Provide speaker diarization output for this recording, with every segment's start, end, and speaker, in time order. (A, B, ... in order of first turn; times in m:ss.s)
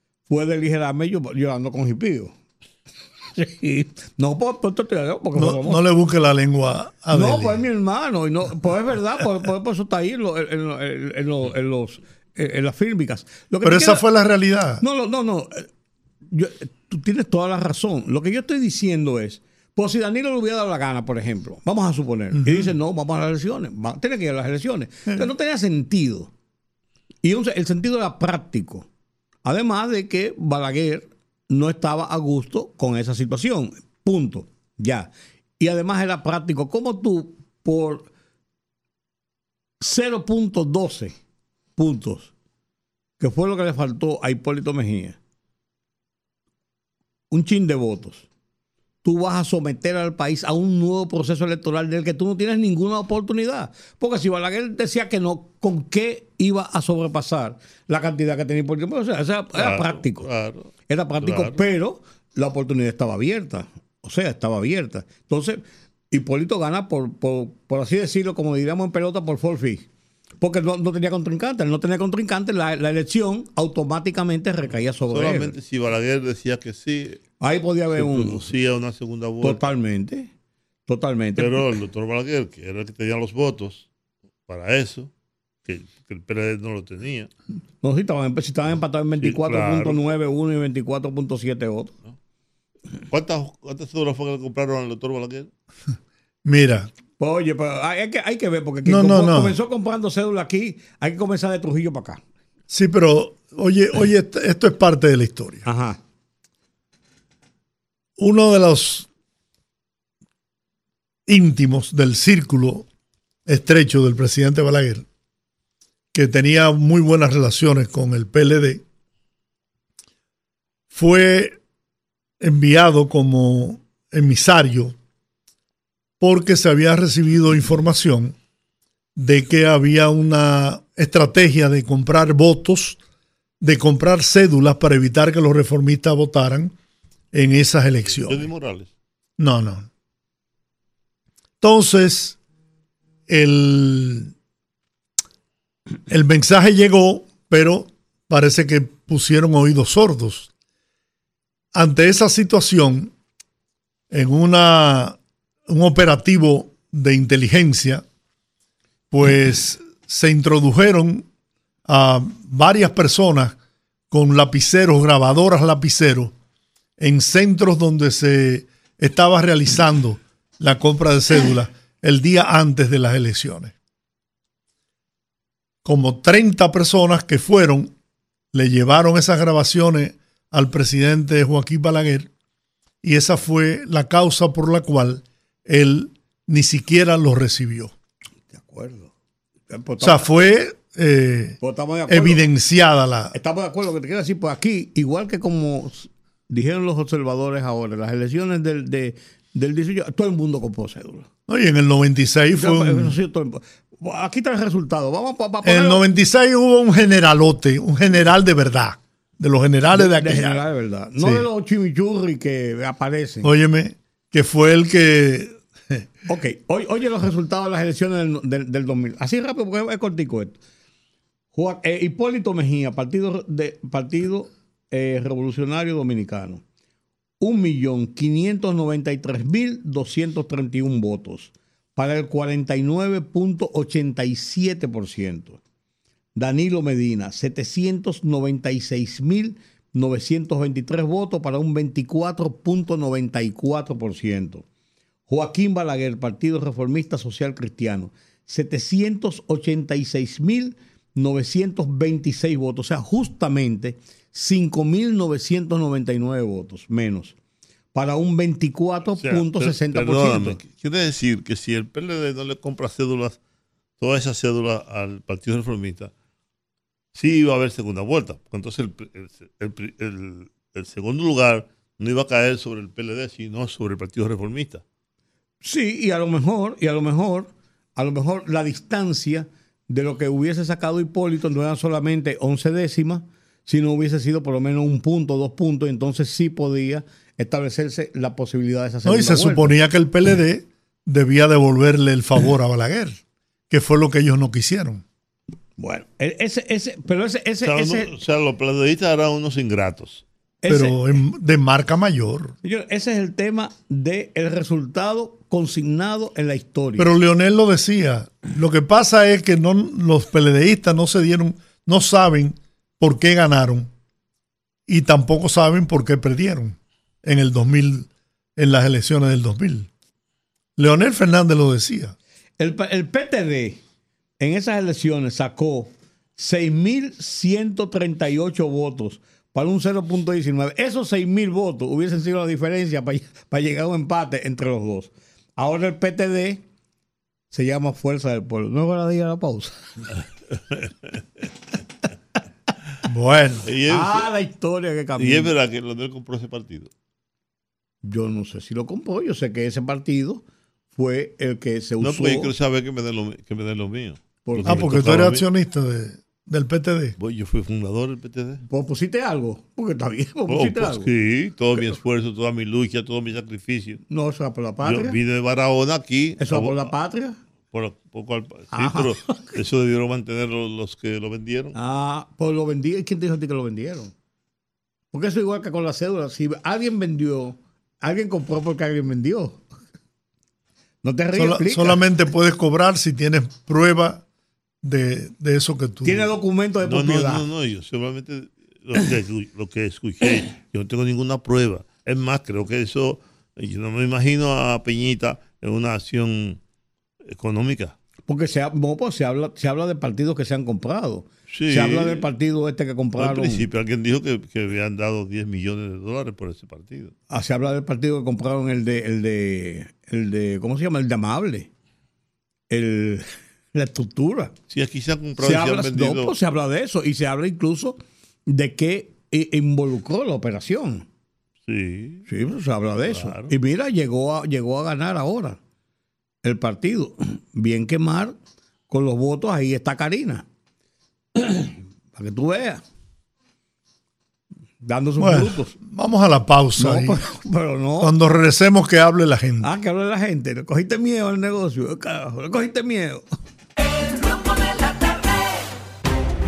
0:00.3-0:02.3 A
0:03.4-0:05.8 A
0:05.4-0:07.6 B
0:07.1-0:14.0 A
0:13.6-0:14.8 B
0:14.8-0:15.7 A
0:16.3-0:26.3 A
0:22.3-0:22.7 B
0:27.2-0:28.9 A
0:29.4-0:38.1 A
0:39.8-0:41.2 A
0:41.8-0:42.3 A
0:43.2-0:45.2 A
0:47.3-0:48.3 A
0:49.0-1:00.3 A
0:59.6-1:01.6 C
1:00.9-1:09.9 A
1:10.4-1:15.5 A
1:15.1-1:17.2 C
1:17.4-1:18.5 A
1:17.9-1:19.6 C
1:19.4-1:20.3 A
1:20.9-1:21.6 A
1:21.4-1:23.9 C
1:24.5-1:25.1 C
1:25.7-1:27.3 C
1:27.8-1:31.9 A
1:29.2-1:30.1 C
1:33.1-1:35.5 C
1:36.4-1:36.9 B
1:37.2-1:42.2 A
1:38.8-1:39.6 B
1:42.7-1:45.7 B
1:45.6-1:46.0 A
1:48.2-1:49.1 B
1:51.3-1:52.9 B
1:53.5-1:55.1 B
1:56.1-1:58.8 B
2:00.9-2:01.6 B
2:02.4-2:05.0 B
2:06.2-2:08.4 B
2:09.2-2:13.0 B
2:13.6-2:16.7 B
2:17.3-2:18.5 B
2:18.1-2:18.9 C
2:19.4-2:19.9 B
2:21.6-2:22.4 B
2:23.3-2:24.3 B
2:26.1-2:30.5 B
2:31.7-2:33.1 B
2:34.1-2:38.0 B
2:39.1-2:41.3 B
2:41.9-2:43.6 B
2:44.1-2:46.4 B
2:47.0-2:53.8 B
2:55.8-2:57.9 B
2:58.5-3:02.3 B
3:03.0-3:07.9 B
3:08.5-3:09.1 A
3:09.7-3:10.4 A
3:10.0-3:13.4 B
3:11.6-3:12.4 A
3:13.3-3:21.3 A
3:21.5-3:23.2 B
3:22.6-3:26.0 A
3:25.6-3:30.6 B
3:29.9-3:33.5 A
3:31.2-3:31.5 B
3:33.4-3:36.1 B
3:36.3-3:40.6 A
3:41.5-3:46.6 A
3:47.4-3:55.6 A
3:56.4-4:04.7 A
4:05.3-4:17.4 A
4:17.9-4:20.6 A
4:19.2-4:23.4 C
4:24.0-4:26.1 C
4:27.1-4:34.8 C
4:35.6-4:49.8 A
4:49.0-4:55.0 B
4:55.8-4:58.1 A
4:57.6-5:00.2 C
5:00.6-5:01.0 A
5:00.7-5:02.6 B
5:02.6-5:07.1 A
5:07.0-5:13.9 B
5:14.9-5:19.9 B
5:20.8-5:22.2 B
5:22.6-5:23.8 A
5:24.4-5:36.6 A
5:37.5-5:40.1 A
5:43.0-5:43.7 B
5:43.7-5:44.3 C
5:43.9-5:45.5 A
5:45.2-5:46.9 C
5:48.0-5:50.4 A
5:50.9-5:52.5 A
5:52.0-5:55.4 C
5:54.4-5:54.9 A
5:54.6-5:57.2 B
5:57.2-5:58.6 C
5:58.7-6:01.1 A
6:00.5-6:04.0 C
6:04.1-6:05.2 A
6:04.8-6:06.9 C
6:06.4-6:07.4 A
6:07.7-6:11.8 C
6:08.7-6:09.5 A
6:11.7-6:14.1 A
6:15.1-6:19.6 A
6:21.0-6:22.0 A
6:21.4-6:24.2 B
6:24.8-6:26.2 B
6:26.0-6:27.4 A
6:26.8-6:36.6 C
6:37.3-6:38.0 C
6:38.3-6:43.6 A
6:41.5-6:42.2 C
6:43.2-6:47.1 C
6:47.3-6:51.7 A
6:52.7-6:54.5 A
6:54.7-6:56.4 C
6:55.4-7:01.1 A
7:01.7-7:02.3 C
7:02.3-7:05.6 A
7:03.1-7:03.5 C
7:06.4-7:08.4 A
7:08.9-7:10.4 A
7:11.4-7:12.8 A
7:14.8-7:15.8 A
7:15.2-7:17.2 B
7:16.8-7:18.1 A
7:18.0-7:19.7 B
7:19.6-7:23.3 A
7:23.8-7:25.7 D